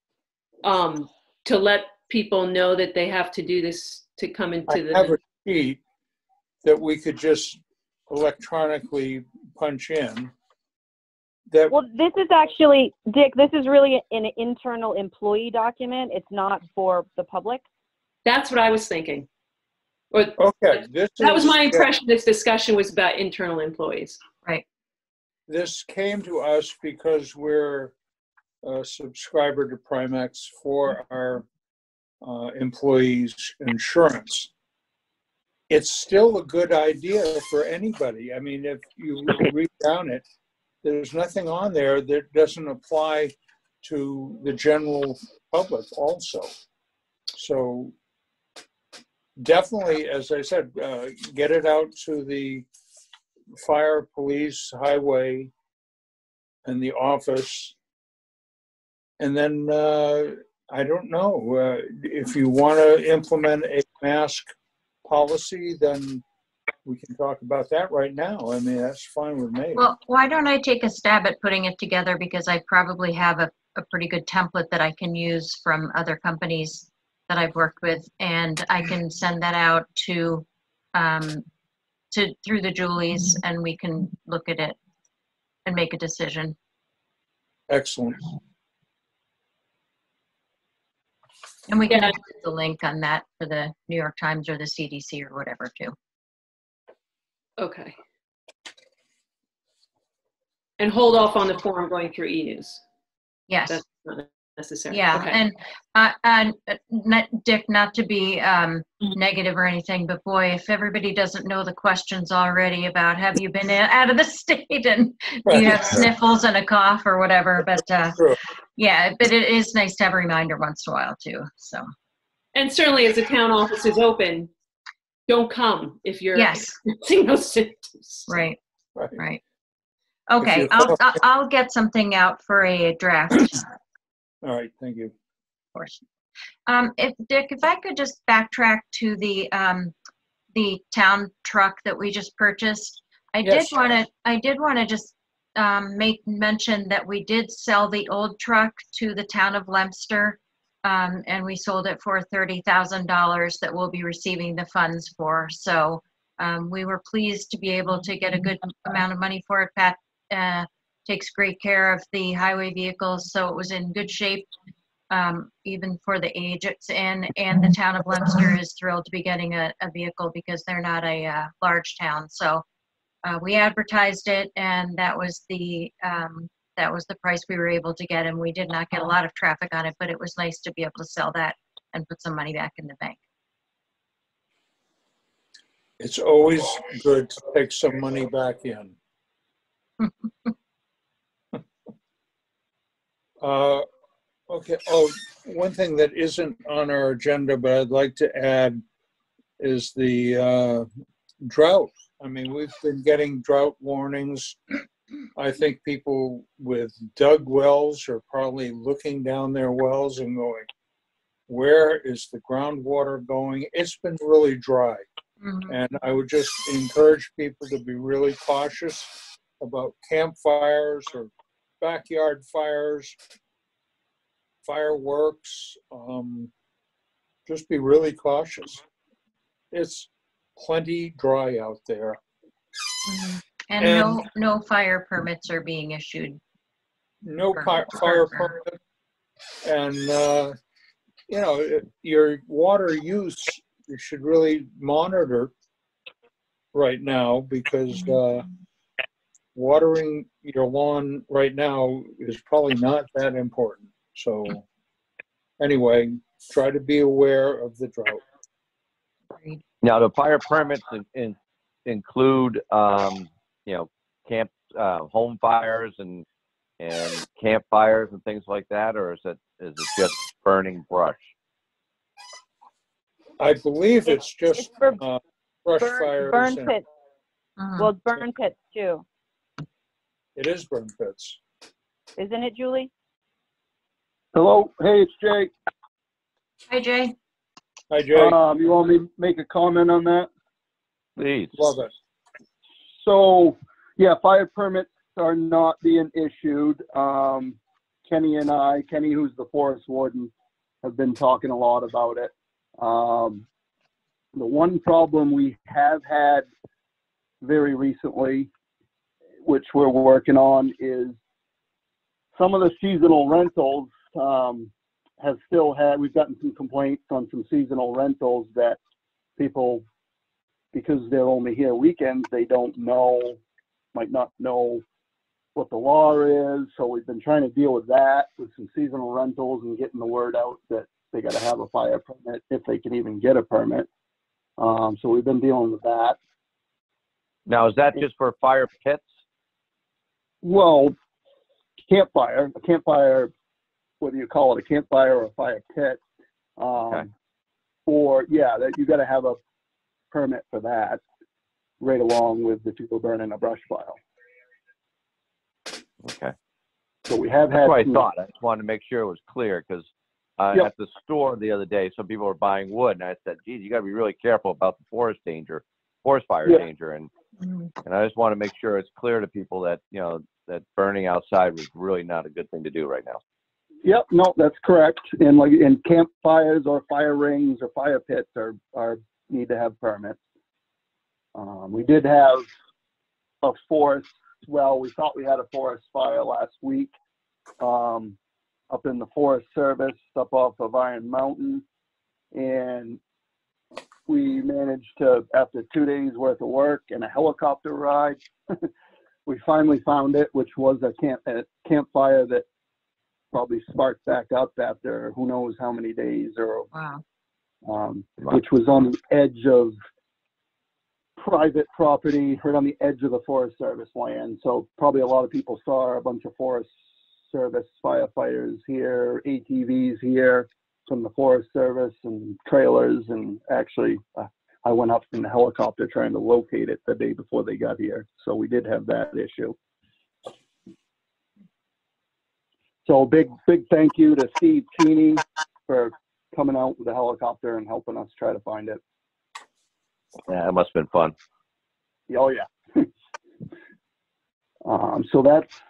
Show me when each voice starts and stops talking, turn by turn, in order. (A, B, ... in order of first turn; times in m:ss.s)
0:00.6-0:05.2 A
0:04.7-0:05.8 B
0:06.6-0:10.3 B
0:11.5-0:11.7 B
0:11.7-0:17.6 C
0:18.2-0:19.3 A
0:20.1-0:20.4 A
0:20.4-0:21.9 B
0:21.2-0:24.2 A
0:25.5-0:27.9 B
0:28.6-0:31.4 B
0:32.2-0:34.5 B
0:35.7-0:40.2 B
0:40.8-0:46.5 B
0:47.3-0:47.9 B
0:49.4-0:52.6 B
0:53.5-0:55.5 B
0:56.6-0:57.7 B
0:59.2-1:04.5 B
1:05.0-1:06.2 B
1:06.8-1:09.8 B
1:09.8-1:21.4 D
1:22.1-1:24.8 D
1:25.6-1:26.6 D
1:27.7-1:28.2 B
1:31.7-1:35.9 D
1:31.9-1:32.2 A
1:37.6-1:38.0 A
1:40.8-1:42.8 A
1:43.5-1:43.8 D
1:43.7-1:45.4 A
1:44.9-1:58.2 D
1:55.4-1:56.1 B
1:58.8-2:01.9 D
2:02.5-2:04.5 A
2:05.3-2:08.3 A
2:06.3-2:06.7 D
2:08.3-2:08.6 D
2:09.2-2:09.4 D
2:10.3-2:13.6 D
2:10.4-2:11.0 B
2:14.4-2:15.1 B
2:15.7-2:16.0 D
2:16.7-2:19.9 D
2:20.5-2:44.5 D
2:23.4-2:23.8 B
2:45.1-2:52.6 D
2:53.2-3:03.2 D
3:06.0-3:08.9 B
3:13.4-3:13.8 B
3:14.5-3:18.8 B
3:19.6-3:20.8 B
3:21.4-3:24.6 B
3:25.4-3:30.7 B
3:31.5-3:35.0 B
3:35.4-3:35.7 D
3:35.7-3:43.2 B
3:44.6-3:46.5 B
3:47.4-3:48.8 B
3:49.7-3:52.2 B
3:53.0-3:56.4 D
3:53.8-3:54.2 B
3:57.2-3:58.8 B
3:57.5-3:58.5 D
3:59.6-4:00.5 B
4:01.3-4:05.5 B
4:06.7-4:08.4 B
4:09.5-4:14.6 B
4:15.6-4:18.2 B
4:19.8-4:26.2 E
4:26.8-4:31.3 E
4:33.4-4:36.8 B
4:34.1-4:35.0 C
4:35.8-4:36.8 C
4:37.6-4:37.9 D
4:37.8-4:39.0 C
4:40.3-4:41.4 B
4:42.2-4:42.9 C
4:44.3-4:45.5 F
4:46.7-4:47.1 D
4:47.9-4:48.4 B
4:48.1-4:50.3 F
4:51.2-4:51.6 E
4:51.5-4:51.9 B
4:53.0-5:00.3 F
5:00.8-5:03.4 F
5:04.3-5:06.5 F
5:07.4-5:08.5 F
5:09.4-5:11.2 F
5:12.4-5:18.8 F
5:19.4-5:19.8 F
5:20.7-5:23.4 F
5:23.9-5:24.8 F
5:25.5-5:33.9 F
5:34.6-5:36.2 F
5:37.5-5:39.1 E
5:40.4-5:40.9 F
5:41.9-5:43.3 F
5:44.0-5:46.0 F
5:46.6-5:47.1 F
5:47.9-5:49.4 F
5:50.1-5:51.0 F
5:51.8-5:54.0 F
5:56.0-5:56.3 E
5:57.1-5:58.0 F
5:57.5-5:59.9 E
6:00.4-6:07.1 E
6:07.4-6:07.7 D
6:07.8-6:13.2 E
6:13.8-6:20.2 F
6:21.3-6:22.5 F
6:23.4-6:26.9 F
6:27.6-6:28.2 F
6:28.7-6:31.6 F
6:32.3-6:33.0 F
6:34.1-6:38.2 F
6:39.3-6:42.4 F
6:43.3-6:46.7 F
6:46.7-6:47.0 D
6:47.7-6:49.8 F
6:51.2-6:56.7 F
6:57.3-7:09.6 F
7:12.8-7:18.8 F
7:20.3-7:21.1 E
7:22.1-7:22.9 F
7:24.6-7:25.5 F